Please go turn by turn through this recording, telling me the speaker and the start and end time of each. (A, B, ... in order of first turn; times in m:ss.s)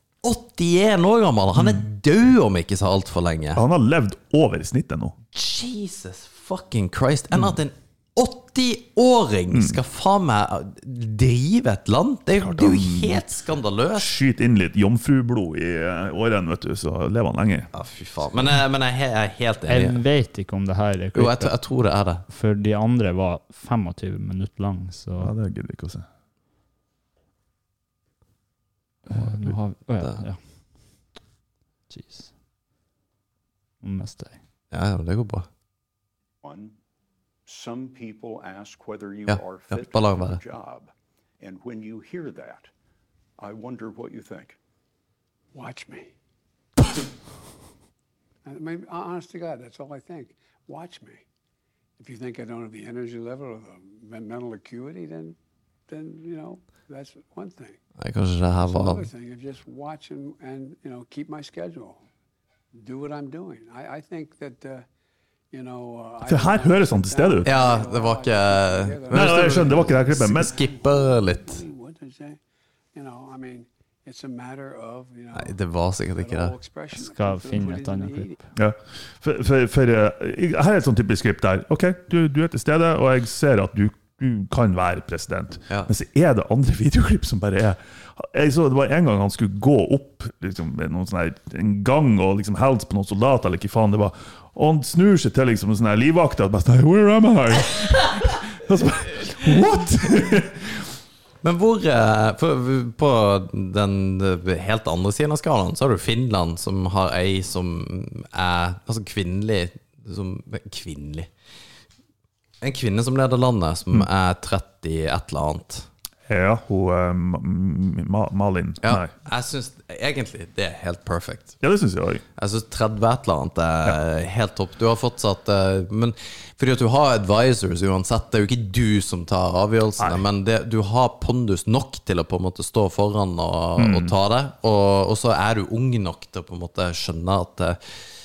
0:00.2-0:03.6 A
0:01.6-0:01.8 B
0:03.6-0:05.2 B
0:05.3-0:14.1 A
0:09.5-0:09.8 B
0:12.4-0:13.3 B
0:14.0-0:17.7 B
0:17.7-0:20.0 A
0:19.7-0:21.6 C
0:21.2-0:22.2 A
0:22.3-0:25.3 C
0:25.2-0:26.1 B
0:29.1-0:30.4 C
0:31.9-0:32.3 C
0:33.8-0:34.4 C
0:34.7-0:35.5 A
0:36.4-0:36.8 D
0:37.5-0:42.7 D
0:39.3-0:40.4 A
0:43.4-0:44.6 D
0:45.5-0:46.1 E
0:48.5-0:51.2 E
0:52.0-0:55.4 E
0:55.9-0:57.8 E
0:58.0-0:59.0 A
0:58.7-1:02.0 E
1:02.8-1:04.8 E
1:05.5-1:12.4 E
1:06.2-1:07.5 B
1:07.4-1:11.6 A
1:09.1-1:10.6 B
1:13.0-1:15.5 E
1:15.3-1:16.6 A
1:16.2-1:18.4 E
1:16.9-1:18.4 C
1:18.6-1:40.8 B
1:41.4-1:51.3 A
1:52.6-1:55.9 A
1:56.3-1:59.1 B
1:58.8-2:01.6 A
2:01.6-2:02.2 B
2:02.4-2:17.8 A
2:10.0-2:10.2 B
2:13.8-2:14.2 B